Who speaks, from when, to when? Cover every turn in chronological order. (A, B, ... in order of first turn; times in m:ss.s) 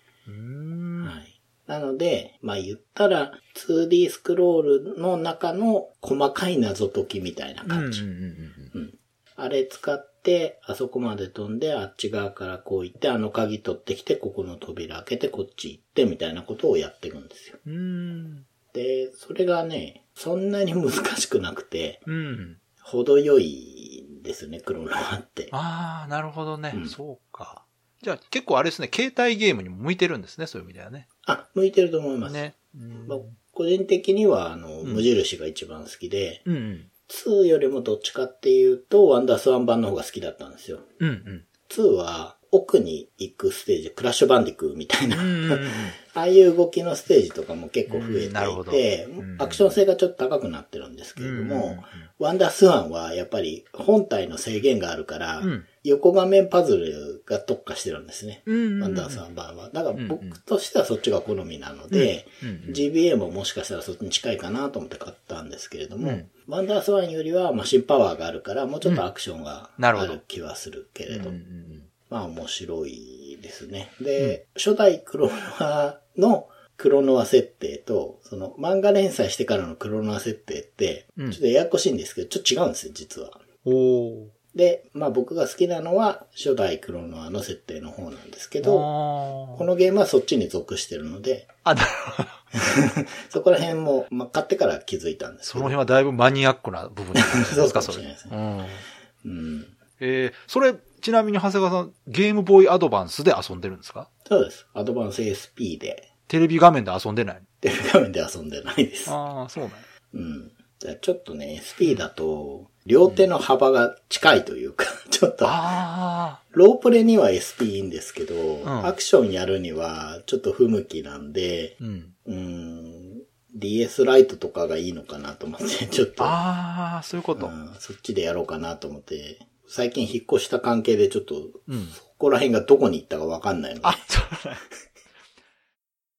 0:00.3-0:01.1 A
0:01.0-0:08.0 B
0:07.6-0:08.7 A
0:08.7-0:17.6 B
0:17.6-0:18.5 A
0:18.7-0:22.1 B
0:22.1-0:22.6 A
0:22.8-0:25.5 B
0:25.5-0:31.1 A
0:31.2-0:32.4 B
0:32.2-0:33.4 A
0:33.1-0:36.5 B
0:34.8-0:35.1 A
0:36.5-0:36.9 A
0:37.1-0:40.9 B
0:41.0-0:41.4 A
0:41.7-1:11.4 B
0:45.1-0:46.0 A
0:47.9-0:49.7 A
0:51.2-0:52.1 A
0:55.4-0:55.7 A
0:58.5-0:59.2 A
0:59.9-1:00.4 A
1:01.9-1:02.8 A
1:06.0-1:06.3 A
1:09.8-1:10.2 A
1:11.1-1:11.9 A
1:12.1-1:23.4 B
1:23.6-1:24.3 A
1:24.5-1:28.9 B
1:28.6-1:29.7 A
1:29.5-1:31.5 B
1:31.6-1:32.4 A
1:32.6-1:35.8 B
1:35.4-1:38.8 A
1:37.1-1:38.4 B
1:39.2-1:39.8 B
1:40.0-1:44.1 A
1:44.2-1:46.1 B
1:46.3-1:47.4 A
1:47.6-1:49.2 B
1:49.1-1:49.9 A
1:50.1-1:55.8 B
1:55.4-1:56.4 A
1:56.5-2:06.4 B
1:58.6-1:59.0 A
2:01.8-2:02.1 A
2:06.2-2:07.5 A
2:07.4-2:14.1 B
2:11.7-2:12.0 A
2:13.8-2:14.6 A